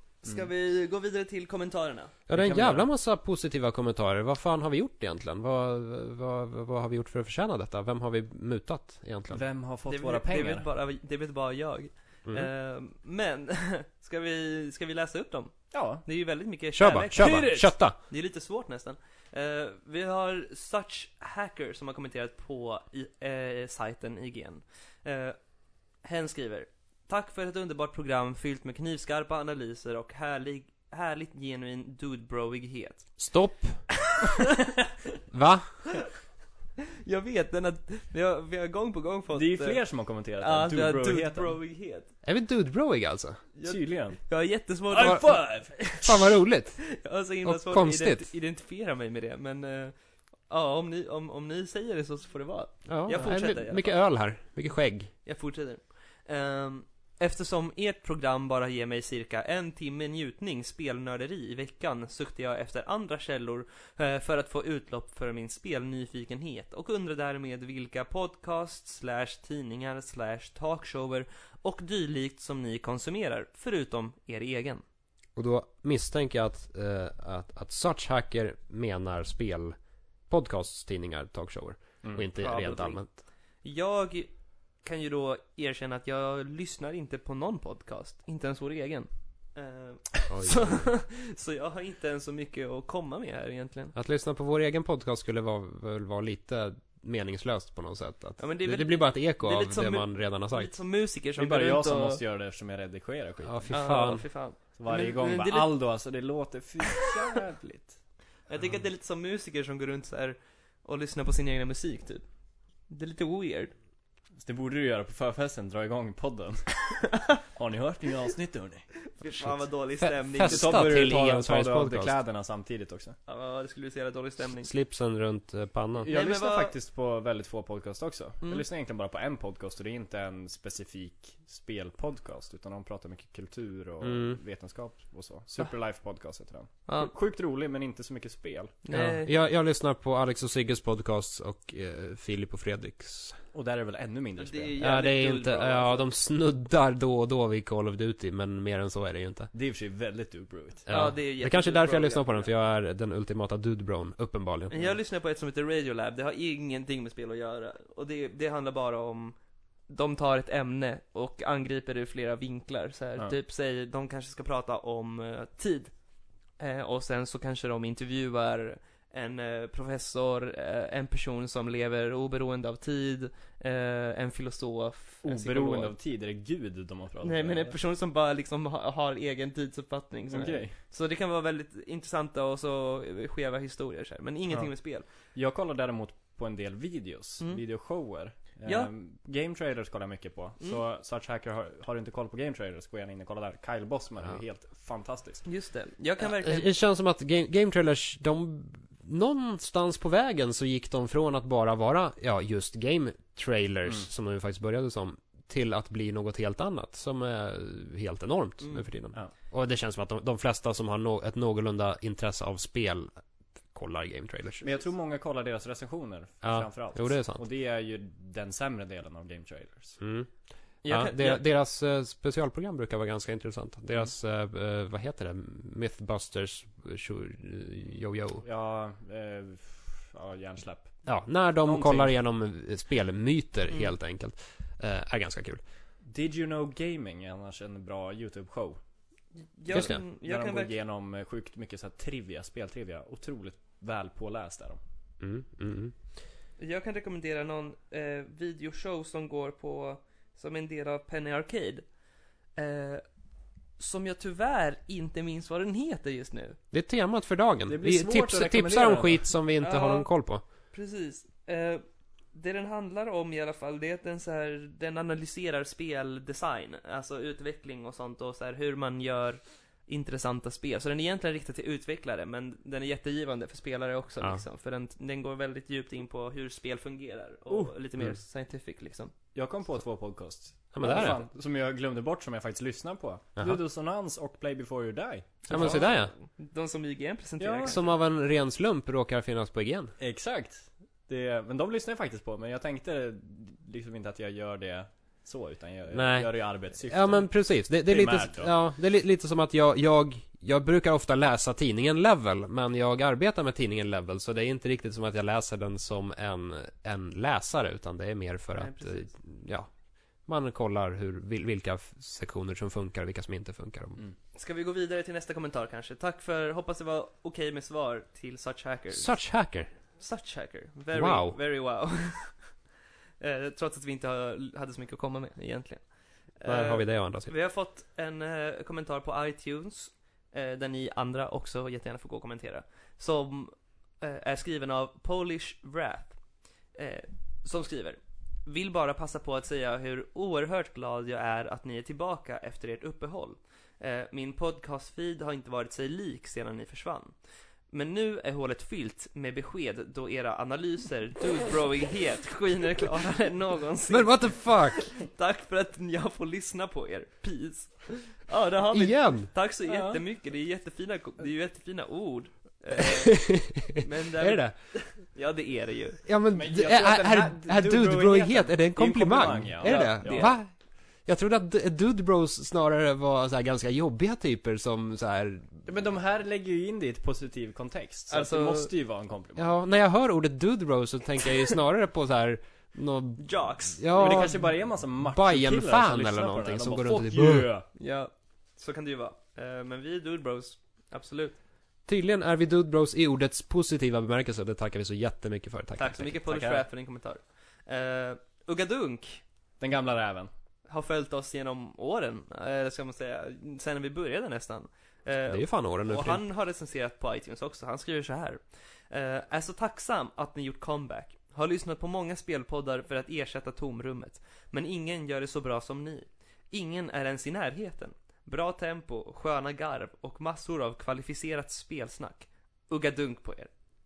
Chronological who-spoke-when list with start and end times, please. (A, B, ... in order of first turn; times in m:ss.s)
0:00.2-0:02.2 A
0:02.3-0:09.4 B
0:02.3-0:02.8 C
0:09.3-0:10.7 C
0:09.9-0:25.4 A
0:15.7-0:16.0 C
0:16.8-0:18.0 B
0:17.2-0:17.6 C
0:26.0-0:33.1 A
0:33.2-0:33.9 B
0:34.1-0:34.5 A
0:35.3-0:35.9 B
0:37.0-0:39.8 A
0:39.3-0:41.6 C
0:40.4-0:42.1 A
0:42.2-0:43.4 B
0:43.5-0:46.2 A
0:43.6-0:44.2 C
0:44.9-0:45.8 C
0:45.0-0:45.2 B
0:45.8-0:48.3 B
0:46.8-0:49.9 A
0:50.5-0:53.9 A
0:52.8-0:55.1 B
0:55.2-1:14.8 A
1:15.4-1:19.8 B
1:20.3-1:23.2 B
1:22.0-1:22.3 C
1:22.4-1:23.0 A
1:23.6-1:24.3 A
1:24.8-1:33.9 A
1:30.3-1:30.8 B
1:33.9-1:40.7 B
1:38.4-1:42.2 A
1:41.4-1:43.8 C
1:43.4-1:44.2 B
1:43.7-1:45.7 A
1:44.8-1:48.0 C
1:48.5-1:52.2 A
1:52.9-1:53.7 A
1:54.4-1:58.9 C
1:59.0-2:00.8 A
1:59.4-2:02.1 B
2:00.4-2:03.2 C
2:03.3-2:04.7 A
2:04.6-2:06.1 B
2:06.0-2:18.8 C
2:06.1-2:06.7 A
2:14.0-2:14.4 B
2:18.8-2:19.3 A
2:18.9-2:23.4 B
2:23.5-2:24.8 C
2:24.4-2:26.0 A
2:24.8-2:29.5 B
2:29.5-2:30.9 C
2:30.9-2:34.8 B
2:30.9-2:32.5 A
2:34.7-2:39.4 A
2:39.9-2:45.9 A
2:46.6-2:55.9 A
2:55.2-2:57.8 C
2:57.2-3:05.0 A
3:00.3-3:00.7 C
3:05.3-3:15.4 C
3:08.6-3:08.9 A
3:15.4-3:16.7 A
3:16.2-3:33.1 B
3:28.6-3:28.9 A
3:33.7-3:34.7 B
3:34.6-3:40.0 C
3:36.4-3:37.4 B
3:40.0-3:40.3 B
3:40.8-3:41.4 A
3:40.8-3:48.4 B
3:48.4-3:51.0 C
3:51.0-3:55.6 B
3:51.6-3:52.1 C
3:56.0-3:58.8 C
3:59.4-4:00.7 A
3:59.7-4:00.0 B
3:59.8-4:04.8 C
4:05.2-4:05.9 B
4:06.6-4:11.8 A
4:12.6-4:13.0 A
4:13.8-4:16.6 A
4:16.7-4:20.4 B
4:17.7-4:19.3 C
4:19.6-4:20.1 A
4:20.7-4:39.1 A
4:39.3-4:45.8 C
4:40.7-4:41.2 B
4:45.5-4:46.1 B
4:45.5-4:47.9 A
4:47.4-4:47.8 C
4:47.6-4:49.9 B
4:50.0-4:57.3 C
4:55.9-4:56.3 B
4:56.8-5:09.7 B
4:57.8-4:58.5 C
5:08.6-5:09.1 A
5:10.3-5:14.0 B
5:14.3-5:19.1 A
5:18.9-5:19.7 B
5:20.0-5:22.5 A
5:20.9-5:21.4 B
5:23.2-5:25.8 A
5:26.4-5:36.2 A
5:26.4-5:27.3 B
5:36.7-5:47.1 A
5:47.7-6:06.0 A
5:53.9-5:54.9 B
5:58.7-5:59.3 B
5:59.6-6:00.0 C
6:03.0-6:04.5 B
6:06.0-6:15.6 B
6:06.3-6:10.3 C
6:09.6-6:10.4 A
6:15.6-6:19.5 C
6:18.1-6:18.7 A
6:19.4-6:24.5 B
6:23.2-6:24.3 A
6:23.9-6:27.7 C
6:25.0-6:27.5 B
6:27.8-6:31.4 A
6:31.9-6:36.2 B
6:35.8-6:39.2 A
6:36.3-6:36.6 C
6:39.6-6:40.3 C
6:40.7-7:03.5 A
6:45.3-6:46.2 B